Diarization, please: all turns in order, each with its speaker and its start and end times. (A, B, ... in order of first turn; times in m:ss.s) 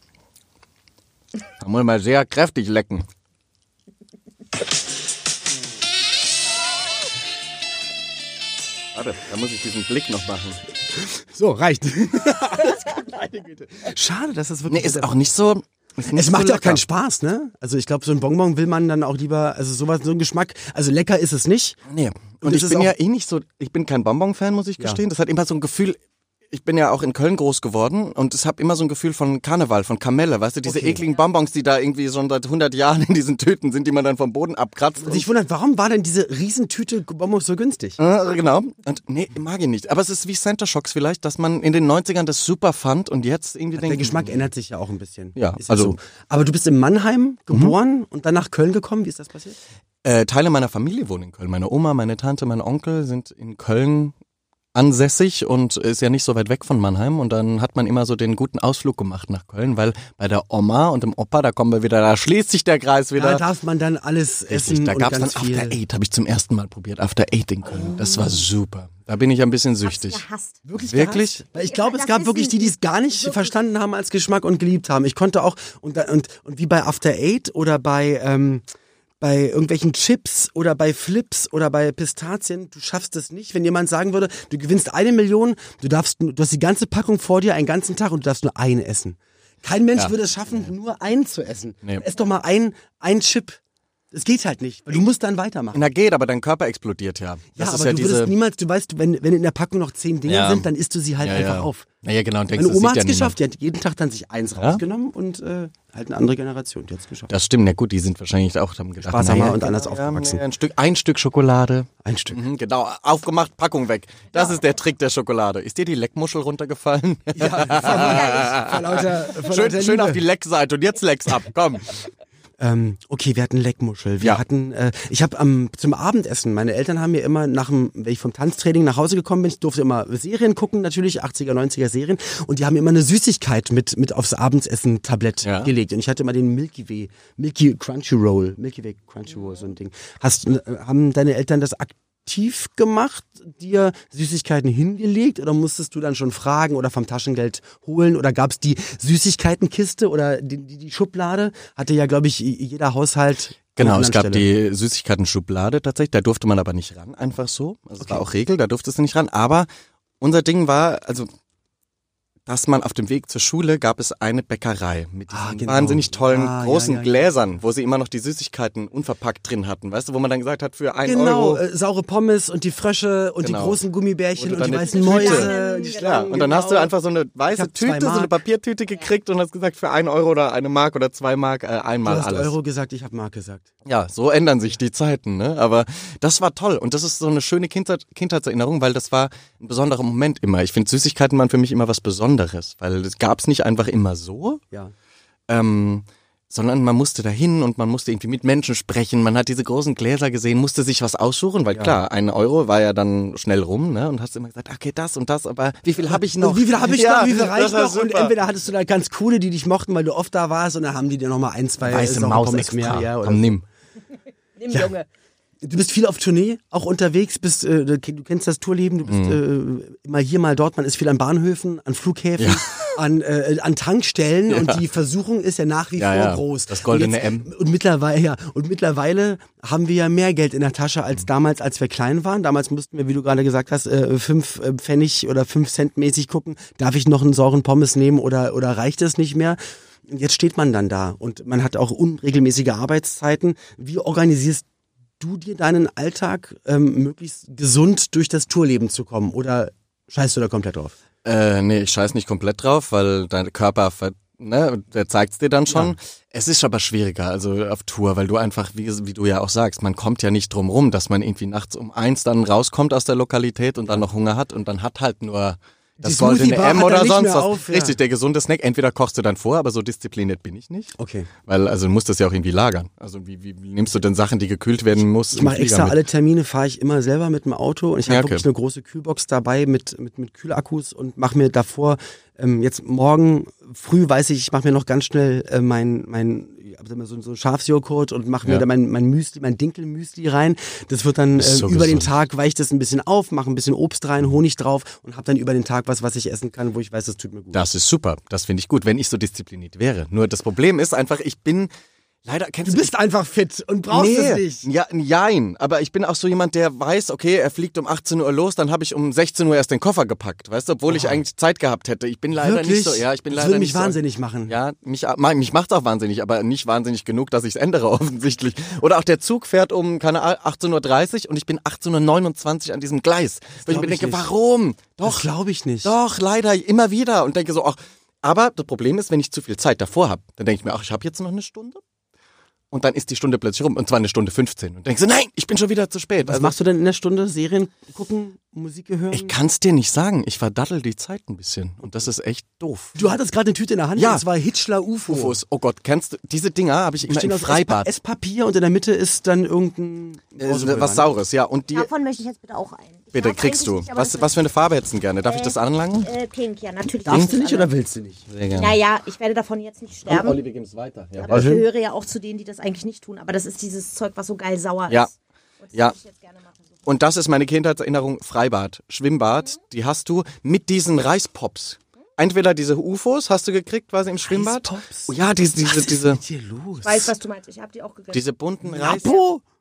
0:01.6-0:03.0 A
0:08.9-0:10.6 A
0:10.9-0:15.2 B
0:14.7-0:16.8 A
0:16.1-0:21.8 B
0:21.9-0:26.0 A
0:22.4-0:22.9 B
0:26.5-0:35.3 A
0:30.6-0:31.0 B
0:35.0-0:38.0 B
0:38.0-0:44.4 A
0:43.8-0:49.6 B
0:45.4-0:46.0 A
0:50.0-0:54.1 A
0:54.7-1:03.4 A
1:03.2-1:05.8 B
1:04.5-1:10.2 A
1:07.8-1:08.4 B
1:09.8-1:10.6 C
1:10.7-1:18.6 B
1:10.8-1:11.4 A
1:11.6-1:13.5 C
1:19.2-1:33.6 B
1:34.1-1:35.8 B
1:35.7-1:38.3 A
1:37.6-1:41.9 B
1:40.3-1:40.7 A
1:41.2-1:43.4 A
1:42.6-1:47.3 B
1:47.3-2:01.9 A
1:49.0-1:50.4 B
1:52.0-1:52.4 B
1:57.4-2:00.2 B
1:57.9-1:58.5 C
2:02.6-2:34.5 B
2:15.4-2:15.7 A
2:33.8-2:39.7 A
2:38.0-2:38.3 B
2:40.2-2:41.3 A
2:42.5-2:51.6 A
2:45.3-2:47.3 B
2:51.0-2:56.9 B
2:53.4-2:53.8 A
2:54.4-3:02.5 A
2:54.8-2:56.5 C
2:57.5-2:58.3 B
3:02.0-3:03.7 B
3:03.9-3:14.6 A
3:15.5-3:28.3 A
3:26.1-3:33.6 B
3:31.8-3:33.6 A
3:34.6-3:35.1 C
3:35.6-4:04.6 B
3:39.1-3:39.4 A
3:42.4-3:42.9 A
3:44.5-3:44.8 A
3:46.0-3:47.5 A
4:05.2-4:11.0 B
4:11.2-4:30.9 A
4:15.7-4:16.0 B
4:26.0-4:28.0 B
4:31.0-4:31.3 B
4:31.5-4:36.0 A
4:35.3-4:57.6 B
4:38.1-4:38.4 A
4:51.4-4:52.1 A
4:57.5-5:01.7 A
5:02.2-5:02.9 A
5:02.6-5:04.7 B
5:03.9-5:25.3 A
5:10.9-5:11.2 B
5:12.4-5:14.5 B
5:23.7-5:24.3 B
5:25.0-5:26.0 B
5:25.8-5:31.8 A
5:32.7-5:36.6 A
5:36.2-5:39.4 B
5:39.1-5:43.0 A
5:43.0-5:45.4 B
5:44.0-5:44.2 A
5:45.1-5:47.9 A
5:47.0-5:51.1 B
5:50.4-5:51.9 A
5:51.7-5:54.3 C
5:53.1-5:56.1 A
5:55.3-5:57.7 C
5:57.0-5:58.3 B
5:58.3-5:58.8 A
5:58.5-6:00.4 C
6:00.1-6:01.5 A
6:01.2-6:05.1 C
6:01.3-6:01.7 B
6:05.6-6:06.7 C
6:06.9-6:16.2 A
6:14.3-6:17.1 B
6:16.8-6:18.2 C
6:18.1-6:19.2 A
6:18.6-6:19.4 B